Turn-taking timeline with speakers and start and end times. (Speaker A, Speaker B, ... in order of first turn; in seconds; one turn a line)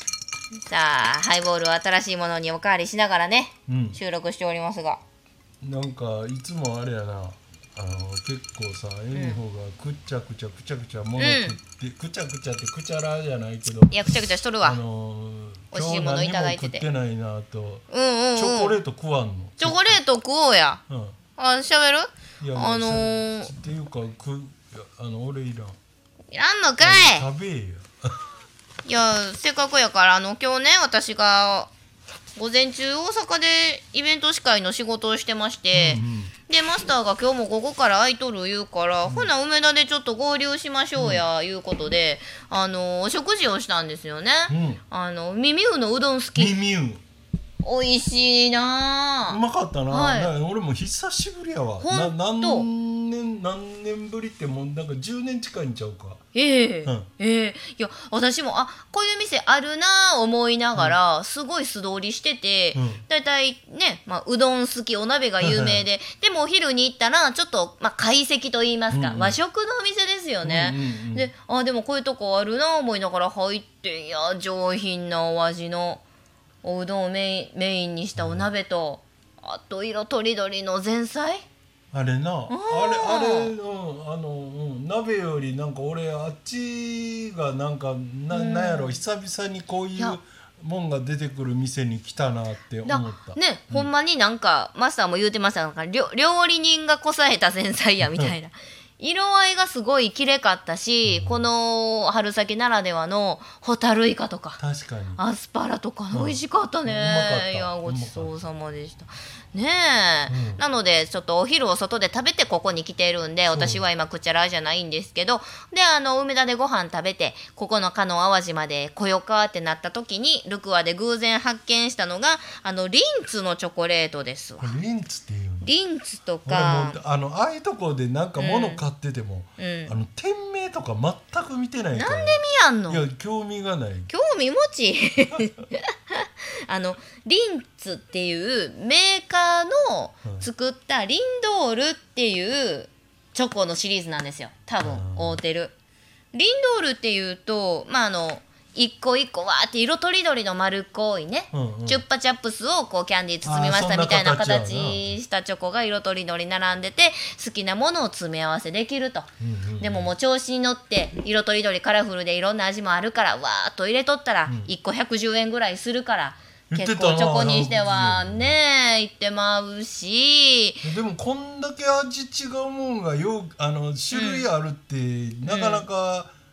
Speaker A: 0.7-5.0
Speaker B: 3.7-4.0
Speaker B: 5.6-14.1
Speaker A: 9.1-9.4
Speaker A: 11.2-11.6
Speaker A: 13.9-14.8
Speaker B: 14.6-17.8
Speaker A: 15.7-16.8
Speaker A: 17.9-18.8
Speaker B: 18.3-20.0
Speaker A: 19.6-20.8
Speaker B: 20.9-21.2
Speaker A: 21.4-23.5
Speaker B: 22.4-25.8
Speaker A: 26.3-27.2
Speaker B: 26.8-28.1
Speaker A: 28.8-31.7
Speaker A: 32.3-46.5
Speaker B: 35.7-36.3
Speaker B: 39.0-39.3
Speaker B: 41.0-41.2
Speaker B: 44.5-44.8
Speaker B: 46.3-47.0
Speaker A: 47.6-50.3
Speaker B: 49.3-56.2
Speaker A: 51.8-52.7
Speaker A: 56.3-76.0
Speaker B: 62.7-63.0
Speaker B: 65.4-65.8
Speaker B: 68.9-69.4
Speaker B: 70.4-71.3
Speaker A: 76.6-81.4
Speaker B: 78.1-78.5
Speaker B: 81.9-93.9
Speaker A: 82.5-83.5
Speaker A: 88.3-89.0
Speaker A: 92.8-104.6
Speaker B: 98.0-98.3
Speaker B: 101.0-101.5
Speaker B: 104.6-105.2
Speaker A: 105.2-124.8
Speaker B: 106.1-108.4
Speaker B: 110.3-110.6
Speaker B: 113.5-113.8
Speaker B: 124.6-125.7
Speaker A: 125.6-127.0
Speaker B: 126.4-134.1
Speaker A: 128.4-128.8
Speaker A: 129.6-129.9
Speaker A: 131.9-133.1
Speaker A: 134.1-145.7
Speaker B: 144.8-145.4
Speaker A: 146.3-170.8
Speaker B: 151.5-152.0
Speaker B: 153.4-155.1
Speaker B: 159.4-160.1
Speaker B: 164.4-164.7
Speaker B: 166.7-168.6
Speaker B: 170.8-176.3
Speaker A: 174.1-174.5
Speaker A: 175.4-175.9